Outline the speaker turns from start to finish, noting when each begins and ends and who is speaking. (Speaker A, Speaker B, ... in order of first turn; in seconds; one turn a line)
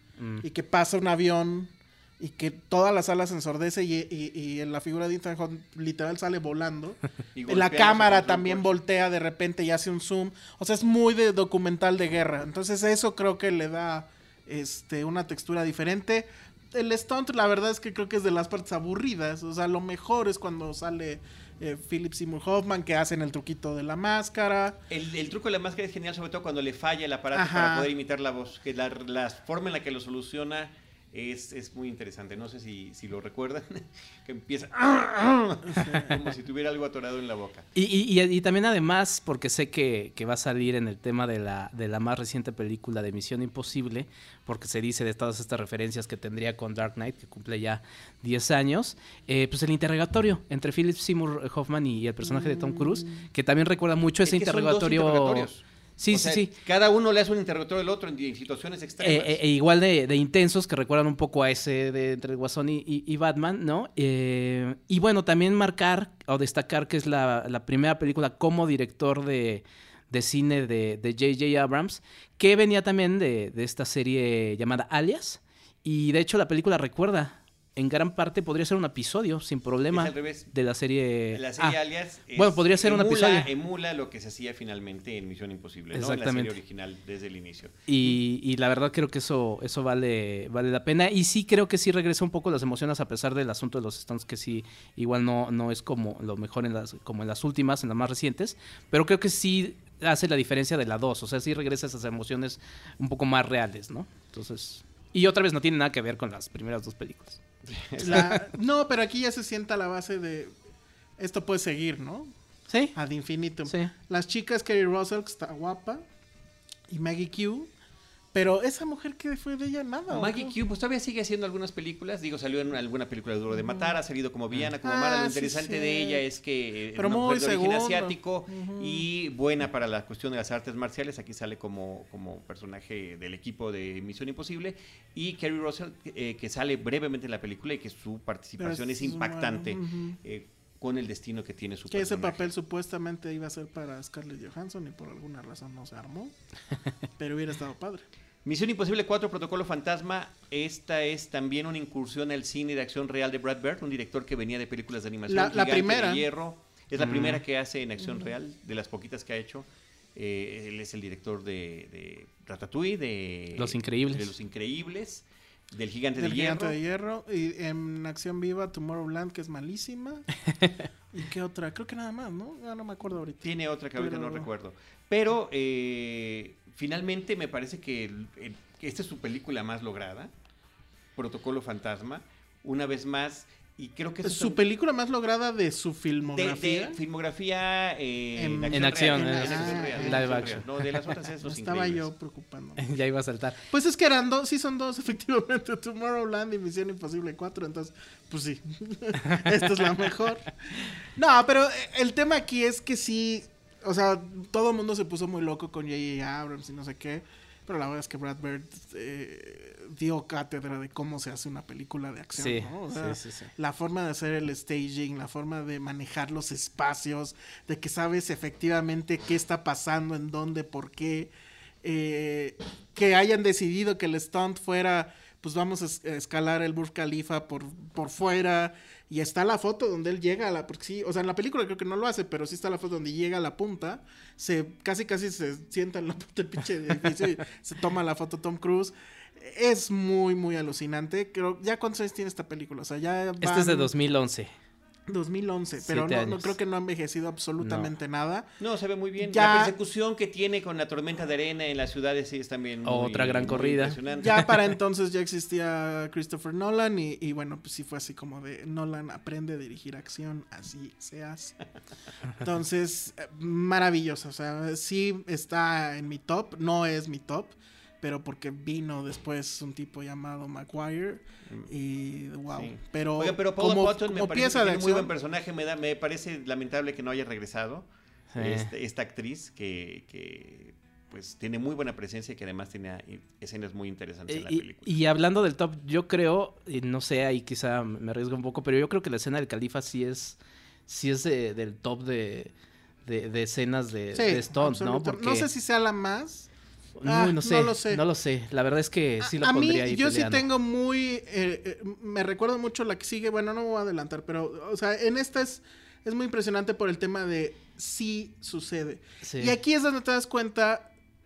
Speaker A: 0.2-0.4
Speaker B: 0.4-24.8
Speaker C: 7.3-8.7
Speaker C: 24.9-37.7
Speaker B: 27.3-27.9
Speaker B: 35.7-36.2
Speaker A: 37.7-56.5
Speaker B: 52.2-53.2
Speaker C: 54.2-59.4
Speaker A: 59.0-81.8
Speaker C: 79.9-80.5
Speaker C: 81.3-88.2
Speaker A: 82.3-83.5
Speaker A: 85.9-86.6
Speaker A: 87.9-107.4
Speaker C: 107.7-108.3
Speaker B: 108.0-110.5
Speaker A: 108.1-108.4
Speaker B: 111.2-112.3
Speaker A: 112.7-112.9
Speaker B: 112.9-116.0
Speaker A: 113.7-113.9
Speaker B: 116.9-117.7
Speaker B: 118.3-120.6
Speaker C: 120.1-142.5
Speaker B: 124.8-126.2
Speaker B: 126.9-129.1
Speaker B: 138.6-140.2
Speaker B: 141.9-146.3
Speaker B: 147.2-148.0
Speaker C: 148.4-166.8
Speaker B: 155.3-156.2
Speaker A: 157.0-157.4
Speaker A: 163.6-164.3
Speaker B: 166.2-170.3
Speaker B: 171.1-174.5
Speaker C: 173.4-180.3
Speaker C: 181.2-184.6
Speaker B: 184.2-187.0
Speaker C: 186.3-192.1
Speaker B: 188.3-190.5
Speaker A: 188.7-190.7
Speaker B: 191.4-192.9
Speaker A: 192.8-193.6
Speaker B: 193.7-221.3
Speaker A: 212.4-213.5
Speaker B: 221.8-243.9
Speaker A: 243.4-244.5
Speaker B: 245.1-248.5
Speaker A: 245.8-246.5
Speaker A: 247.6-247.9
Speaker C: 248.6-254.4
Speaker B: 249.2-249.7
Speaker A: 252.8-254.0
Speaker B: 254.2-261.6
Speaker B: 262.4-275.1
Speaker C: 272.5-284.9
Speaker A: 278.3-278.7
Speaker A: 284.3-292.5
Speaker A: 293.1-295.5
Speaker B: 294.1-296.5
Speaker A: 297.0-300.4
Speaker B: 297.0-298.0
Speaker B: 299.2-310.9
Speaker A: 309.2-309.6